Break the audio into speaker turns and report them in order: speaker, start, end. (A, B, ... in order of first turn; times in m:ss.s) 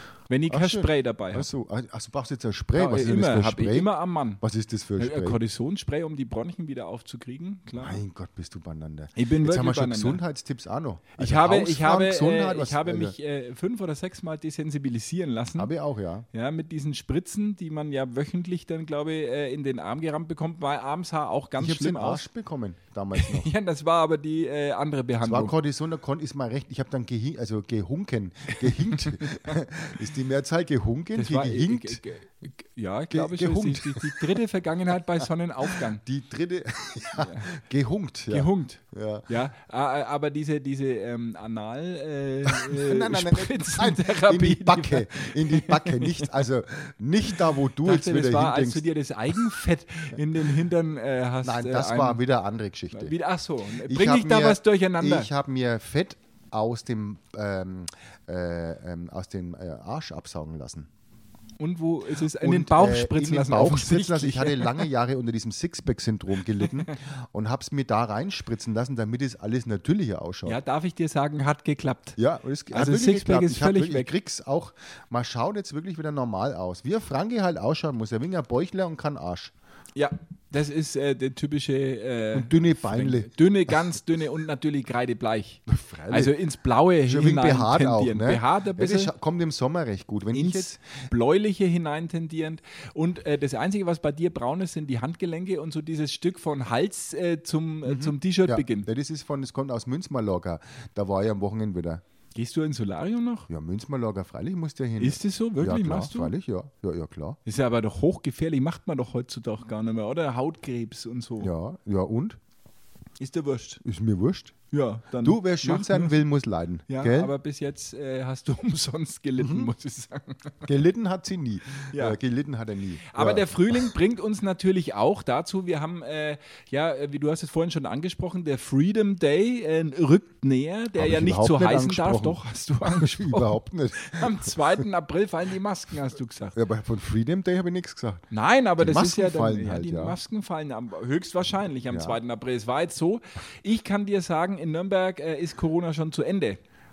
0:00.3-0:01.5 A
0:00.5-0:05.4 B
0:02.8-0:04.4 A
0:05.0-0:08.0 A
0:07.8-0:13.2 B
0:09.2-0:10.2 A
0:11.2-0:15.7 A
0:15.6-0:16.3 B
0:16.3-0:22.2 A
0:21.6-0:23.5 B
0:23.2-0:25.5 A
0:25.2-0:32.0 B
0:29.2-0:29.6 A
0:31.2-0:36.0 A
0:33.1-0:34.4 B
0:35.7-0:39.3 B
0:37.2-0:37.5 A
0:38.3-0:46.4 A
0:42.5-0:48.8 B
0:47.8-0:52.2 A
0:51.4-0:53.1 B
0:52.9-0:55.3 A
0:53.8-1:00.9 B
1:01.6-1:04.9 A
1:02.4-1:10.6 B
1:10.4-1:12.2 A
1:12.2-1:19.5 B
1:12.7-1:14.1 A
1:20.0-1:29.1 A
1:22.3-1:23.3 B
1:25.7-1:26.3 B
1:27.1-1:30.8 B
1:30.3-1:38.9 A
1:37.8-1:42.0 B
1:42.4-1:43.5 A
1:43.5-1:47.4 B
1:45.0-1:46.3 A
1:47.5-1:51.5 A
1:51.4-1:52.4 B
1:53.2-1:53.8 A
1:53.8-1:54.6 B
1:54.7-1:56.2 A
1:55.2-1:57.3 B
1:56.9-2:00.7 A
1:59.4-1:59.7 B
2:00.6-2:03.9 B
2:01.9-2:02.2 A
2:03.1-2:16.6 A
2:11.0-2:14.8 B
2:16.6-2:18.2 B
2:18.3-2:26.6 A
2:18.8-2:20.2 B
2:21.9-2:22.2 B